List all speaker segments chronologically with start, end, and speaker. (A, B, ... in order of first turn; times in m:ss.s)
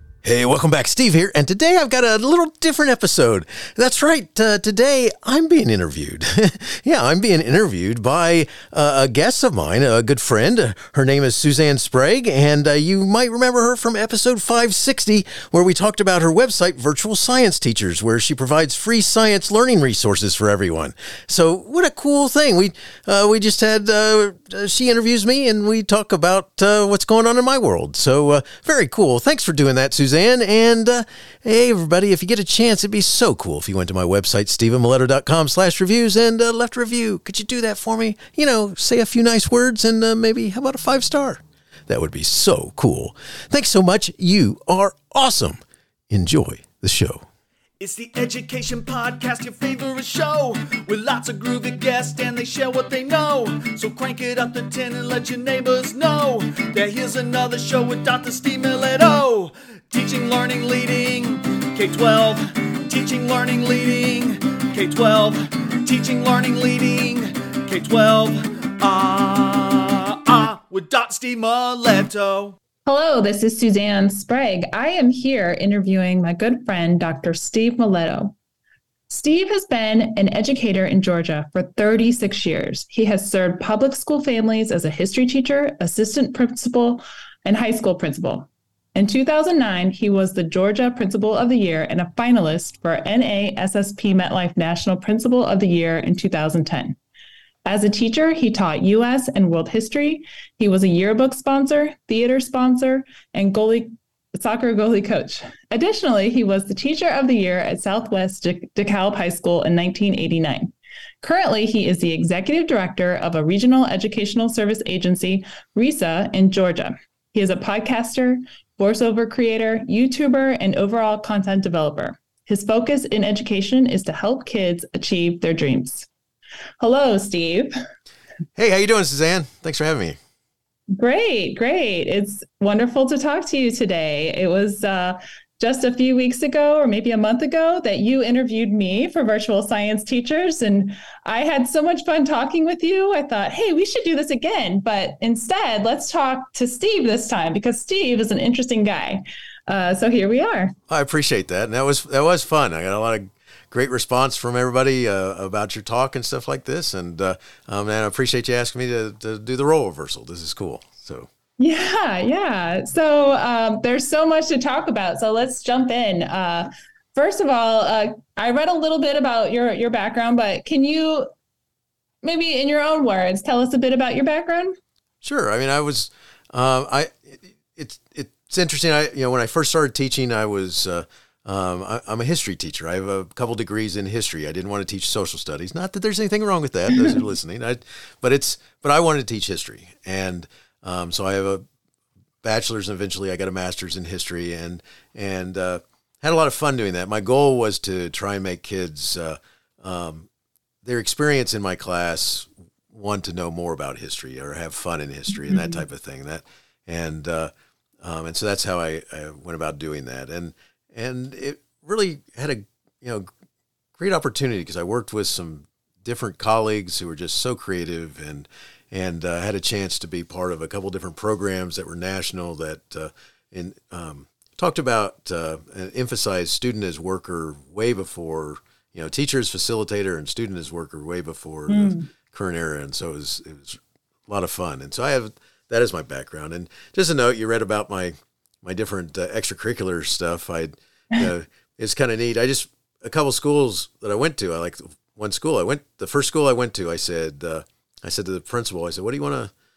0:00.2-0:45.6 A
0:46.1-0:47.2 A
0:47.8-1:12.6 B
1:12.8-1:18.4 C
1:19.1-1:37.0 C
1:37.6-2:06.1 C
2:06.8-2:07.7 C
2:08.6-2:10.2 A
2:10.9-2:30.7 C
2:30.9-2:41.3 A
2:41.6-2:51.3 C
2:52.2-2:54.7 C
2:55.2-3:11.6 A
3:12.4-3:20.3 A
3:20.8-3:33.3 A
3:25.4-3:25.8 C
3:34.0-4:09.5 A
3:51.7-3:52.1 C